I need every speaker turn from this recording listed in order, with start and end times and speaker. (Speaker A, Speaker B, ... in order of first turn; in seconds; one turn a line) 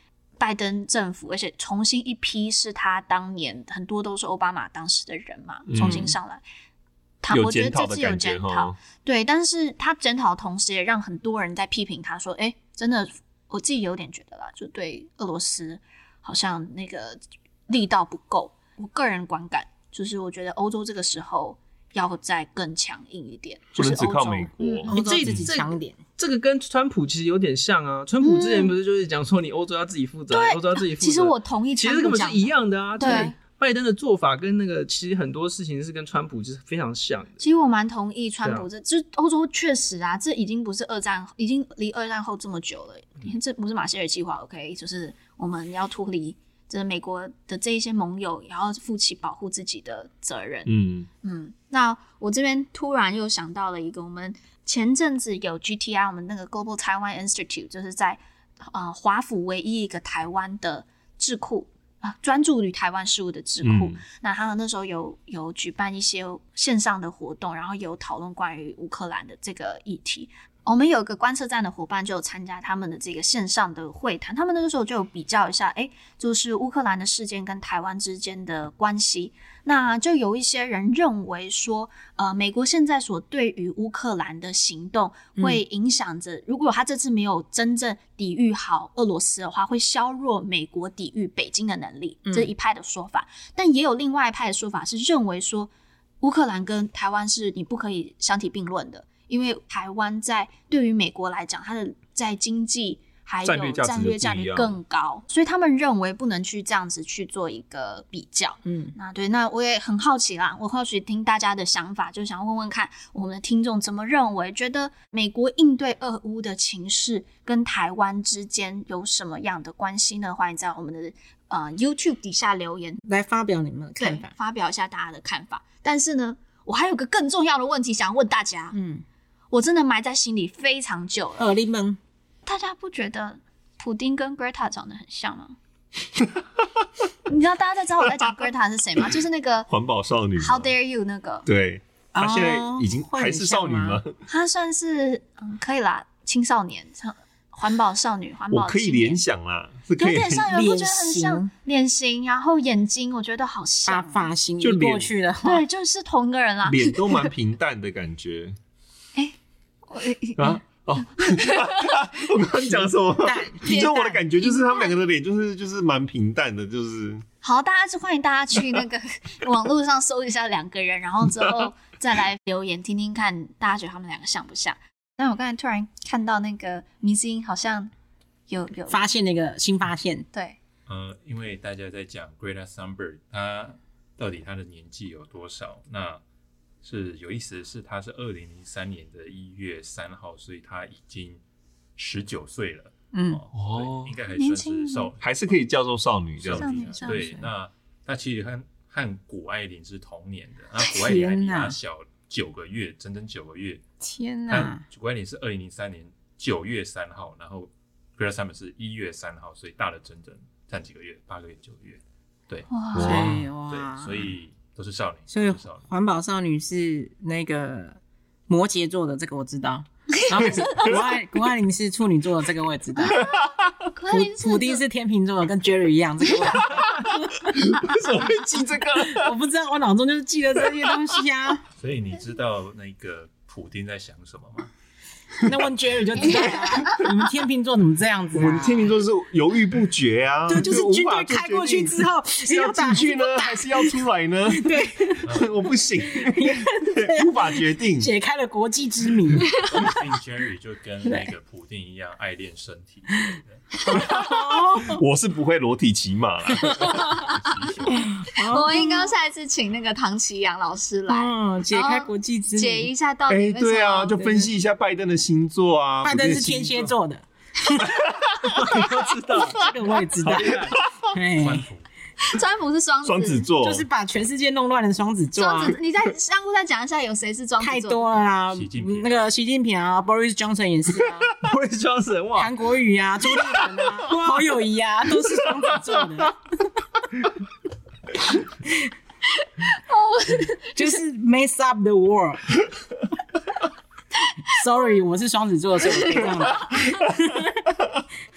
Speaker A: 0.4-6.4
Speaker B: 5.7-6.1
Speaker C: 5.8-6.1
Speaker A: 7.2-25.0
Speaker B: 7.3-8.8
Speaker B: 23.8-25.5
Speaker D: 24.9-37.4
Speaker C: 24.9-26.0
Speaker A: 28.2-28.7
Speaker A: 30.3-33.4
Speaker A: 37.4-50.7
Speaker B: 50.7-51.1
Speaker A: 51.2-95.7
Speaker B: 63.6-64.0
Speaker C: 92.3-92.5
Speaker A: 96.2-123.0
Speaker B: 103.4-104.8
Speaker C: 108.7-109.0
Speaker C: 123.0-124.3
Speaker A: 124.0-128.8
Speaker C: 128.7-129.0
Speaker A: 129.5-131.5
Speaker C: 131.4-132.0
Speaker A: 132.5-135.6
Speaker A: 137.3-139.7
Speaker B: 139.7-140.7
Speaker A: 140.4-141.5
Speaker B: 141.4-144.2
Speaker C: 142.2-144.0
Speaker A: 144.3-149.2
Speaker B: 148.5-150.5
Speaker A: 150.0-154.3
Speaker C: 150.4-151.5
Speaker C: 153.9-155.7
Speaker B: 154.6-155.1
Speaker A: 155.4-157.3
Speaker B: 156.7-158.6
Speaker A: 159.9-162.1
Speaker B: 160.4-167.2
Speaker C: 162.7-164.2
Speaker A: 163.7-165.0
Speaker A: 167.4-177.9
Speaker A: 178.5-179.1
Speaker C: 178.9-180.3
Speaker E: 180.9-186.2
Speaker E: 186.8-191.4
Speaker E: 192.0-195.2
Speaker C: 193.1-193.4
Speaker B: 193.5-194.1
Speaker A: 194.3-195.1
Speaker B: 195.2-197.0
Speaker E: 196.4-203.8
Speaker A: 196.5-197.4
Speaker C: 197.1-197.5
Speaker C: 200.9-201.8
Speaker C: 204.0-204.8
Speaker E: 204.5-215.8
Speaker A: 212.7-213.3
Speaker B: 212.9-213.5
Speaker C: 213.0-214.3
Speaker C: 215.3-223.2
Speaker A: 220.1-220.9
Speaker B: 220.4-221.1
Speaker A: 223.0-224.8
Speaker B: 223.2-223.7
Speaker C: 224.1-227.5
Speaker A: 226.5-226.8
Speaker B: 227.5-229.3
Speaker C: 229.0-231.6
Speaker E: 231.8-234.7
Speaker C: 235.4-238.9
Speaker A: 236.5-237.0
Speaker B: 238.3-248.1
Speaker C: 240.5-244.0
Speaker C: 244.5-245.3
Speaker E: 245.2-245.5
Speaker C: 246.2-249.7
Speaker E: 249.5-254.0
Speaker C: 251.1-251.3
Speaker C: 253.9-255.0
Speaker B: 253.9-257.0
Speaker C: 256.8-257.1
Speaker E: 256.9-258.1
Speaker A: 257.1-257.5
Speaker C: 257.9-259.1
Speaker A: 258.4-264.5
Speaker C: 261.1-262.9
Speaker B: 263.3-266.9
Speaker C: 266.0-267.9
Speaker B: 267.9-268.8
Speaker D: 268.5-270.8
Speaker C: 269.4-271.6
Speaker B: 270.3-270.9
Speaker E: 271.4-271.8
Speaker A: 272.2-273.5
Speaker B: 273.0-273.9
Speaker C: 273.6-275.8
Speaker A: 275.4-278.1
Speaker C: 277.6-281.3
Speaker E: 278.5-279.3
Speaker D: 281.4-282.5
Speaker C: 282.4-286.4
Speaker A: 289.4-291.0
Speaker C: 290.8-292.7
Speaker C: 294.5-297.7
Speaker A: 295.9-296.9